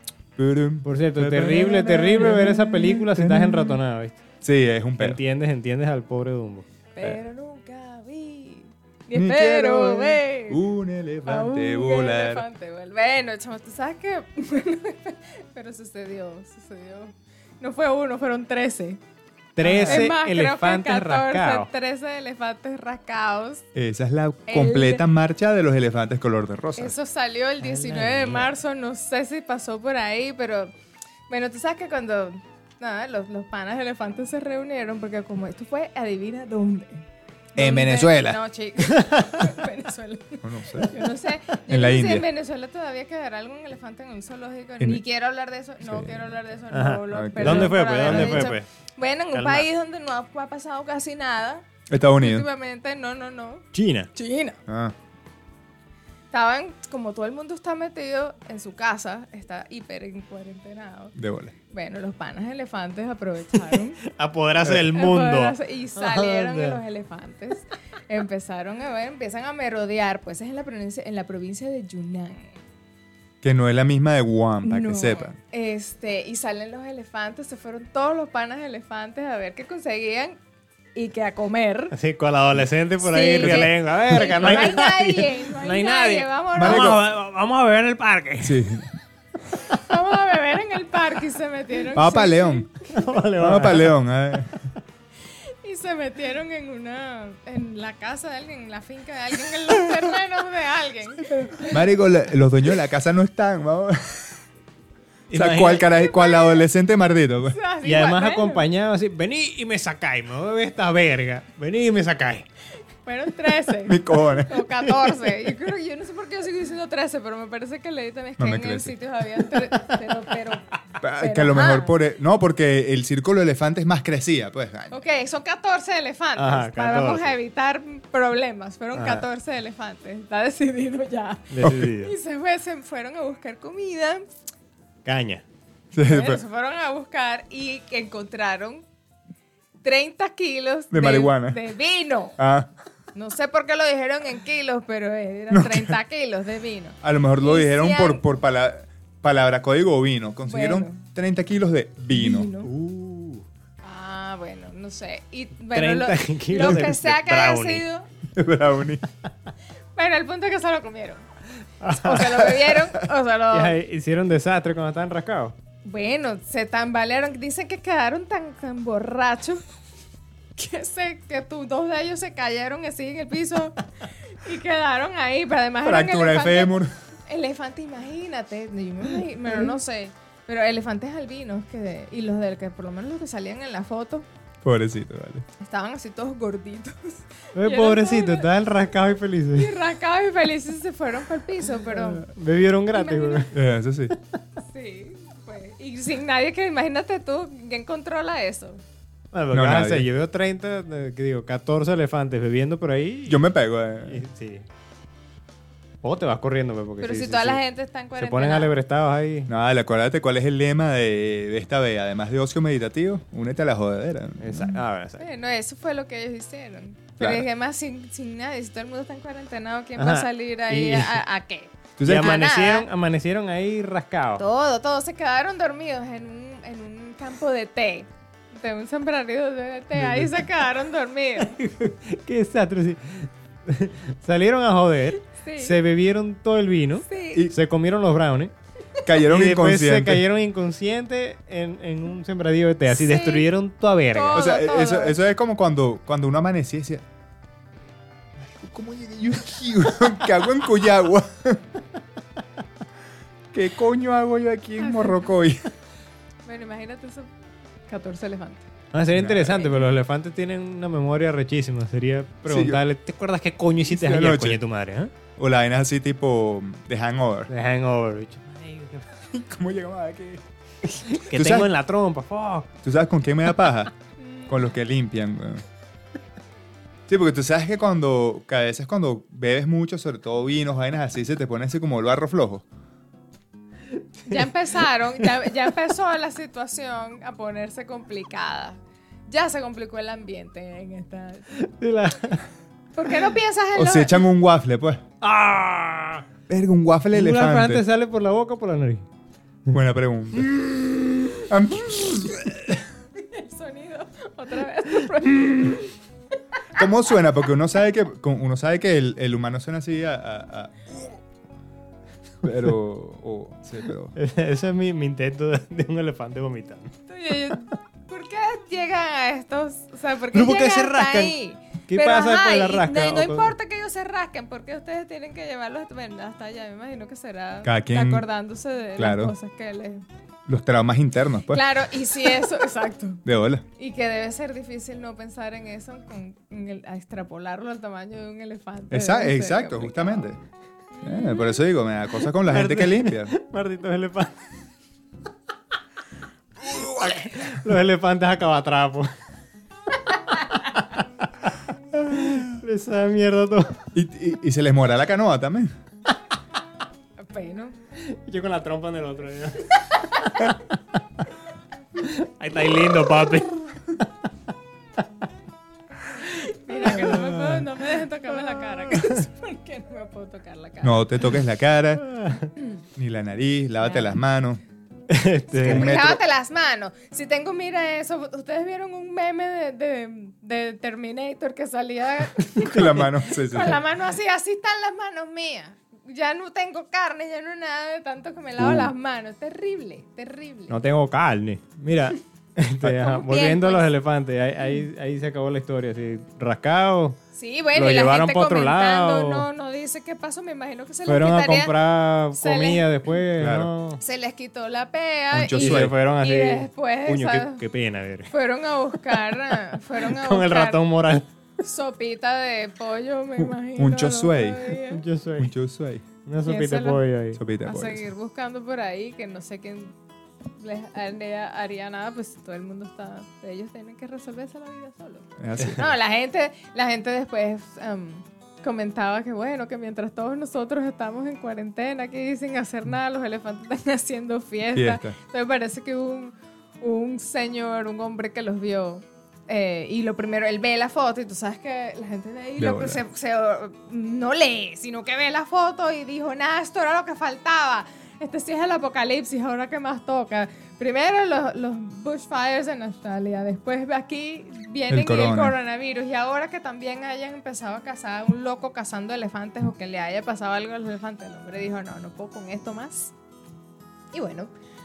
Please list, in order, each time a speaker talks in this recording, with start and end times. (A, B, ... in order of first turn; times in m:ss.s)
0:00.4-0:03.8 A
0:00.8-0:04.2 B
0:04.4-0:05.2 A
0:05.0-0:06.6 B
0:06.9-0:10.6 C
0:09.1-0:12.4 A
0:11.2-0:19.0 C
0:19.6-0:21.7 B
0:19.6-0:23.6 C
0:19.6-0:20.1 A
0:23.7-0:26.9 A
0:24.5-0:25.0 C
0:26.8-0:30.7 C
0:27.6-0:28.5 B
0:31.3-0:54.6 C
0:37.6-0:38.4 A
0:39.0-0:39.5 B
0:40.4-0:41.0 A
0:41.6-0:42.3 A
0:45.8-0:46.3 A
0:46.7-0:48.7 B
0:47.1-0:48.6 A
0:49.3-0:49.7 B
0:51.9-0:52.5 A
0:53.7-0:54.1 B
0:54.7-0:54.9 A
0:56.3-1:01.1 C
1:01.1-1:01.5 A
1:01.7-1:04.0 C
1:03.7-1:06.8 B
1:04.6-1:04.9 A
1:04.9-1:12.6 C
1:13.4-1:15.4 A
1:14.6-1:20.4 C
1:20.9-1:21.9 C
1:21.9-1:28.8 B
1:23.0-1:27.0 C
1:26.6-1:27.0 A
1:28.4-1:28.9 A
1:29.7-1:32.9 C
1:31.9-1:34.7 A
1:32.8-1:34.4 B
1:35.6-1:41.8 C
1:41.3-1:44.3 A
1:45.3-1:45.9 B
1:45.3-1:47.6 A
1:45.8-1:46.6 C
1:47.5-1:48.6 C
1:47.8-1:52.5 B
1:53.0-2:02.0 C
1:53.8-1:54.5 A
1:54.9-1:55.3 B
1:58.4-1:58.9 A
2:01.0-2:05.0 A
2:04.9-2:14.3 C
2:06.4-2:07.4 B
2:08.9-2:09.2 B
2:11.5-2:12.1 B
2:11.6-2:11.9 A
2:15.0-2:15.4 B
2:15.9-2:16.4 A
2:16.1-2:18.8 C
2:19.8-2:22.4 C
2:20.9-2:21.6 A
2:22.4-2:22.7 A
2:23.1-2:28.2 C
2:25.5-2:26.0 A
2:27.0-2:32.5 A
2:30.5-2:31.0 C
2:32.1-2:32.7 C
2:32.6-2:33.4 B
2:33.8-2:38.1 C
2:35.7-2:37.8 B
2:36.6-2:36.9 A
2:38.3-2:39.0 A
2:39.9-2:41.2 C
2:41.8-2:42.5 B
2:41.9-2:43.8 C
2:43.5-2:45.5 B
2:45.8-2:49.6 C
2:50.6-3:04.2 C
2:55.8-2:56.9 A
3:04.6-3:05.4 A
3:05.6-3:08.5 C
3:07.5-3:09.8 B
3:09.5-3:12.3 C
3:12.2-3:13.5 B
3:12.9-3:13.5 C
3:13.5-3:14.1 A
3:14.6-3:18.8 C
3:19.3-3:24.6 B
3:19.5-3:20.1 A
3:23.3-3:24.2 A
3:26.0-3:27.6 B
3:27.0-3:28.7 C
3:28.2-3:29.5 B
3:29.5-3:34.8 A
3:34.4-3:35.3 B
3:35.2-3:42.9 C
3:37.2-3:37.4 A
3:40.0-3:41.2 B
3:42.0-3:42.4 A
3:42.0-3:44.4 B
3:44.4-3:51.5 C
3:50.0-3:50.3 A
3:51.4-3:58.5 B
3:55.1-3:55.8 C
3:57.0-3:57.5 C
3:59.0-4:00.2 A
3:59.2-4:04.5 B
4:02.9-4:03.5 C
4:04.1-4:05.2 C
4:04.3-4:07.0 A
4:08.4-4:11.6 A
4:13.5-4:15.7 A
4:14.8-4:15.2 C
4:16.4-4:17.3 C
4:17.9-4:18.7 C
4:18.9-4:25.1 B
4:19.1-4:19.6 A
4:19.4-4:19.8 C
4:22.5-4:22.8 A
4:23.9-4:24.6 A
4:25.4-4:27.5 A
4:27.5-4:29.0 B
4:29.3-4:30.4 A
4:30.8-4:32.7 B
4:31.3-4:31.7 A
4:32.8-4:33.9 A
4:34.2-4:34.6 C
4:34.5-4:35.6 A
4:37.1-4:42.6 A
4:44.2-4:44.5 B
4:44.3-4:51.5 C
4:51.5-4:52.4 B
4:52.9-4:54.3 C
4:53.7-4:55.0 A
4:55.2-4:56.2 B
4:56.5-4:57.8 A
4:57.1-4:59.0 B
4:59.7-5:00.5 A
5:00.4-5:01.5 B
5:01.5-5:02.8 A
5:03.3-5:05.9 C
5:06.7-5:11.1 A
5:12.4-5:14.1 A
5:14.1-5:16.9 B
5:17.1-5:30.0 C
5:20.3-5:21.3 B
5:21.9-5:23.5 B
5:27.6-5:28.2 A
5:29.0-5:29.3 A
5:30.5-5:32.4 A
5:31.5-5:33.2 C
5:33.2-5:33.6 A
5:33.8-5:40.3 C
5:38.9-5:40.4 A
5:40.9-5:41.6 C
5:41.0-5:43.3 A
5:42.4-5:44.4 B
5:46.6-5:49.1 B
5:51.9-5:53.8 B
5:53.9-5:55.7 A
5:57.2-5:57.8 C
5:58.0-6:00.6 B
6:02.0-6:03.7 B
6:06.3-6:11.1 C
6:06.8-6:07.7 B
6:10.8-6:12.1 A
6:12.0-6:12.5 B
6:12.9-6:14.6 A
6:13.8-6:14.1 C
6:15.1-6:15.9 B
6:15.6-6:16.2 A
6:15.6-6:30.8 C
6:22.6-6:23.1 B
6:22.6-6:23.8 A
6:30.7-6:37.2 B
6:32.8-6:33.9 C
6:37.3-6:41.8 C
6:37.7-6:39.5 B
6:41.1-6:44.0 B
6:42.3-6:42.9 C
6:43.4-6:43.7 A
6:44.0-6:47.6 C
6:45.3-6:45.9 A
6:45.6-6:48.3 B
6:48.3-6:50.8 C
6:49.0-6:51.2 B
6:51.6-6:55.0 C
6:53.4-6:54.7 A
6:54.9-6:55.5 B
6:55.4-6:56.0 A
6:56.2-6:57.4 B
6:56.4-6:57.0 C
6:57.3-6:58.1 A
6:57.6-6:59.9 C
7:00.6-7:43.1 C
7:05.4-7:05.9 A
7:14.7-7:15.2 A
7:22.6-7:23.0 A
7:34.9-7:35.6 A
7:44.1-7:44.5 C